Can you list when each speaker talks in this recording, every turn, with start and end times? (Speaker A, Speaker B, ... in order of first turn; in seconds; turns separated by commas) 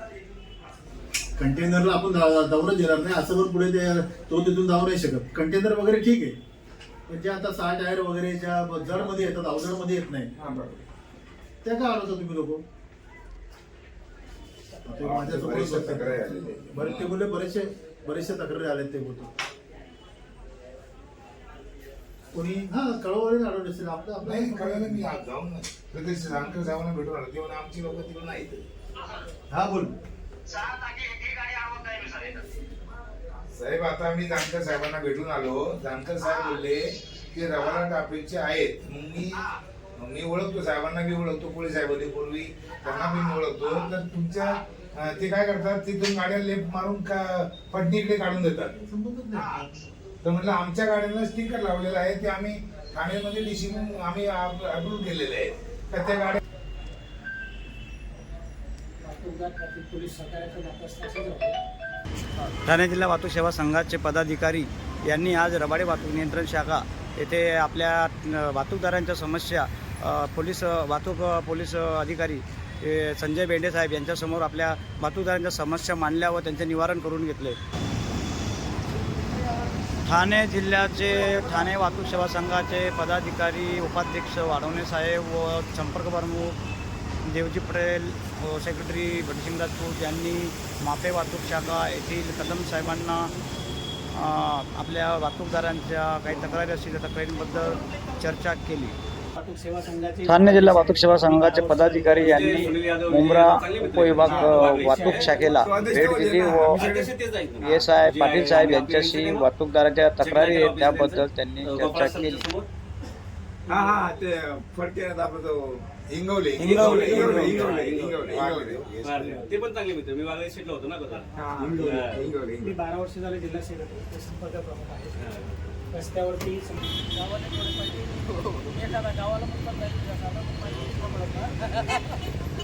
Speaker A: 1.4-6.4, Speaker A: 7.1-10.3, Speaker B: 10.4-10.8, Speaker A: 11.6-12.6, Speaker A: 14.8-19.3, Speaker B: 15.0-17.1, Speaker A: 22.3-25.2, Speaker B: 24.2-28.6, Speaker A: 29.5-30.0, Speaker C: 30.6-32.4, Speaker B: 33.5-48.8, Speaker A: 48.8-49.9, Speaker B: 50.2-56.4, Speaker D: 59.0-61.6, Speaker C: 62.6-77.6, Speaker C: 80.1-86.6, Speaker C: 87.3-93.3, Speaker C: 94.2-99.0, Speaker D: 99.3-102.8, Speaker C: 100.3-106.9, Speaker E: 102.2-105.4, Speaker D: 104.1-105.9, Speaker B: 105.6-107.1, Speaker E: 106.6-109.5, Speaker C: 107.6-112.5, Speaker E: 110.2-112.7, Speaker B: 113.7-119.6, Speaker E: 116.6-122.3, Speaker C: 116.6-117.7, Speaker B: 121.4-122.7, Speaker D: 122.6-131.8, Speaker E: 125.2-125.5